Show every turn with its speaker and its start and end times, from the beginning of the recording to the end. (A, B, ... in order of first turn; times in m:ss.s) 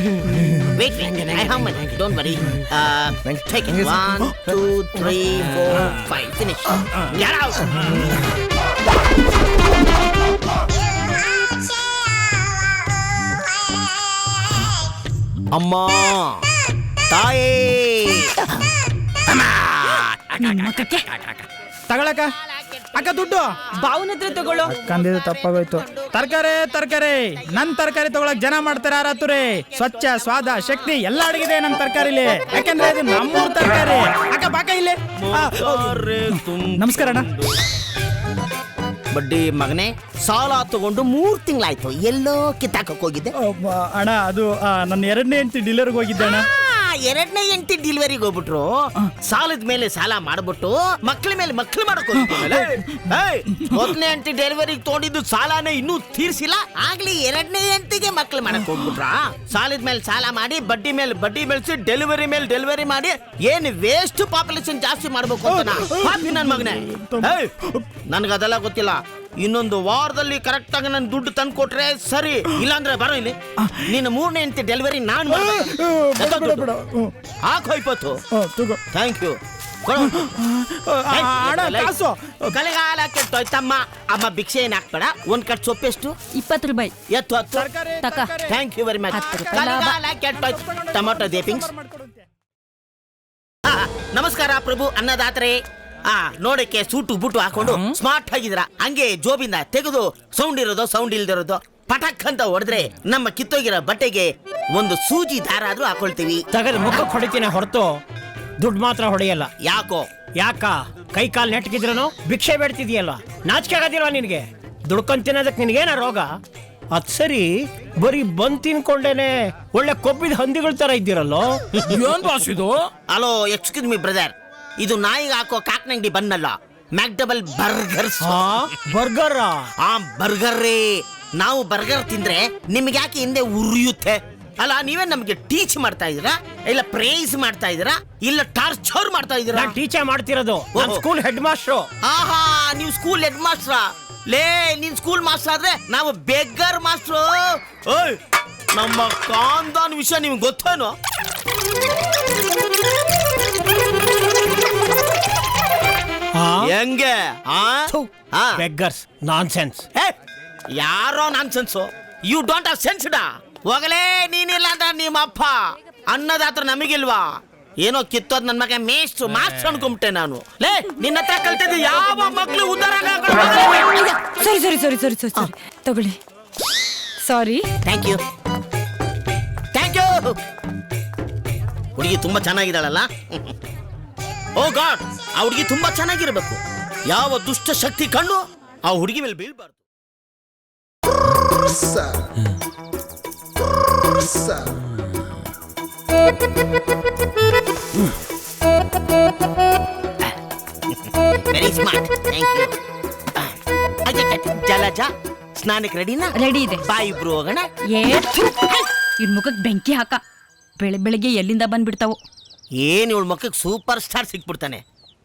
0:00.6-0:07.9 A
0:15.5-0:16.4 A
0:17.1-0:18.3 A
0:19.4-0:20.6 A
0:19.9-0:21.3 B
0:21.9-0:22.3 C
0:22.6-0:26.5 A
0:22.9-0:23.5 C
0:23.8-0:24.5 B
0:24.6-0:37.2 C
0:30.1-0:31.0 A
0:31.6-0:33.5 A
0:35.2-0:37.6 A
0:39.1-0:43.3 A
0:43.4-0:46.5 C
0:46.2-1:07.6 A
1:05.5-1:07.3 C
1:08.1-1:16.7 A
1:15.3-1:17.1 C
1:17.4-1:18.2 A
1:18.3-1:18.8 C
1:18.9-1:20.4 A
1:20.0-1:22.4 C
1:21.1-1:21.9 A
1:22.4-1:26.1 A
1:26.3-1:26.9 B
1:27.1-1:27.7 A
1:27.6-1:28.6 C
1:28.0-1:28.3 B
1:28.4-1:31.7 A
1:29.1-1:29.7 C
1:29.1-1:29.9 B
1:30.4-1:32.2 C
1:33.6-1:46.4 A
1:46.5-1:48.0 D
1:48.6-1:49.5 D
1:49.6-1:50.1 A
1:50.4-1:56.3 D
1:56.9-2:01.6 D
2:01.8-2:02.2 A
2:02.1-2:02.6 D
2:03.1-2:08.7 A
2:08.3-2:09.6 D
2:09.8-2:19.8 A
2:19.6-2:21.9 D
2:20.7-2:21.0 A
2:22.0-2:28.2 A
2:28.7-2:30.9 A
2:36.4-2:36.7 D
2:36.6-2:38.6 A
2:38.6-2:39.8 D
2:40.8-2:45.6 A
2:46.1-2:47.3 A
2:47.8-2:54.4 A
2:54.3-2:56.2 B
2:57.2-2:57.6 B
2:57.8-2:58.2 A
2:59.7-3:00.4 A
3:02.0-3:03.5 A
3:04.6-3:09.8 A
3:21.5-3:22.7 A
3:24.0-3:27.7 A
3:26.4-3:26.8 B
3:27.9-3:30.2 B
3:30.8-3:32.2 B
3:32.8-3:34.8 A